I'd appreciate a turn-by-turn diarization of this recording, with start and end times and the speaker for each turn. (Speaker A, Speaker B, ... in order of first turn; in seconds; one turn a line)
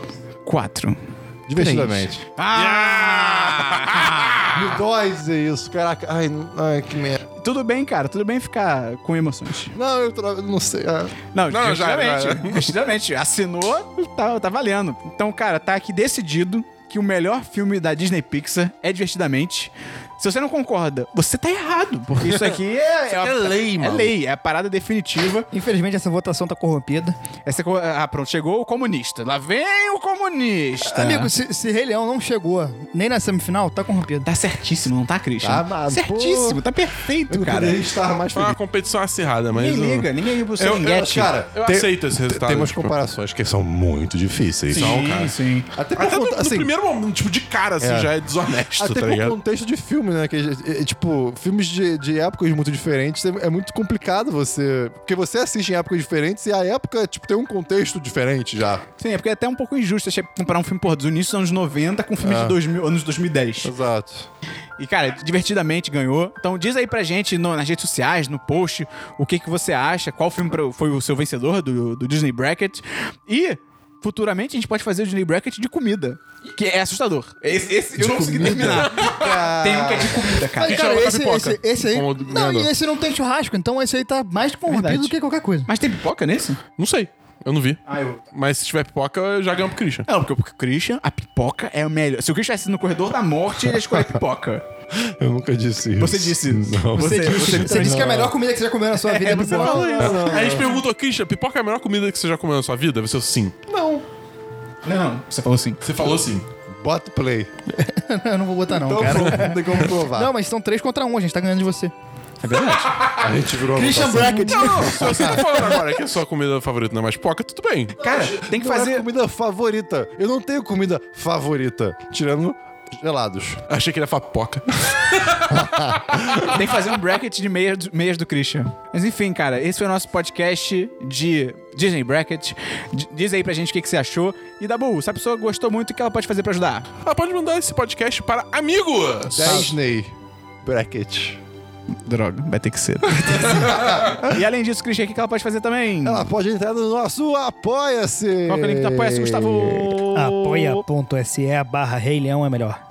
Speaker A: 0.5-1.0
Speaker B: 1.5-2.2
Speaker A: 1.6-4.5
Speaker C: 2.5-4.5
Speaker B: 4.5-7.2
Speaker A: 7.4-9.8
Speaker B: 9.7-11.2
Speaker A: 11.3-25.5
Speaker C: 11.5-12.8
Speaker C: 22.3-24.1
Speaker D: 25.5-27.2
Speaker A: 27.5-31.3
Speaker D: 30.9-34.3
Speaker A: 34.3-37.8
Speaker B: 35.4-36.6
Speaker B: 37.3-38.6
Speaker C: 38.3-40.1
Speaker A: 39.5-41.3
Speaker B: 40.6-45.1
Speaker C: 41.5-43.0
Speaker A: 44.7-45.7
Speaker C: 44.7-45.4
Speaker B: 45.8-46.7
Speaker C: 46.0-49.4
Speaker B: 47.8-48.1
Speaker B: 48.8-58.8
Speaker A: 59.0-63.7
Speaker B: 62.2-62.6
Speaker B: 63.6-64.3
Speaker A: 64.8-81.0
Speaker B: 78.0-80.4
Speaker C: 78.5-79.1
Speaker D: 80.6-85.7
Speaker C: 80.7-82.7
Speaker A: 84.7-85.1
Speaker A: 85.7-86.6
Speaker C: 86.8-87.8
Speaker A: 87.9-88.2
Speaker C: 88.3-90.1
Speaker A: 90.1-94.6
Speaker B: 94.9-98.4
Speaker A: 96.0-98.2
Speaker D: 97.0-100.0
Speaker A: 99.0-100.7
Speaker B: 99.3-100.7
Speaker C: 100.0-103.7
Speaker B: 103.7-104.0
Speaker A: 104.8-105.8
Speaker C: 105.8-106.5
Speaker B: 106.7-107.5
Speaker D: 107.8-111.9
Speaker B: 108.7-110.3
Speaker A: 112.4-113.0
Speaker C: 112.5-113.2
Speaker B: 113.2-115.7
Speaker D: 113.7-115.7
Speaker C: 114.5-118.0
Speaker A: 118.0-119.1
Speaker B: 118.0-123.6
Speaker C: 123.7-126.5
Speaker B: 125.5-126.5
Speaker A: 126.5-136.9
Speaker C: 137.0-139.6
Speaker B: 139.3-140.1
Speaker A: 139.4-139.7
Speaker B: 140.6-141.4
Speaker A: 141.9-146.3
Speaker B: 143.4-144.3
Speaker B: 146.0-150.8
Speaker A: 148.5-150.0
Speaker D: 150.1-152.8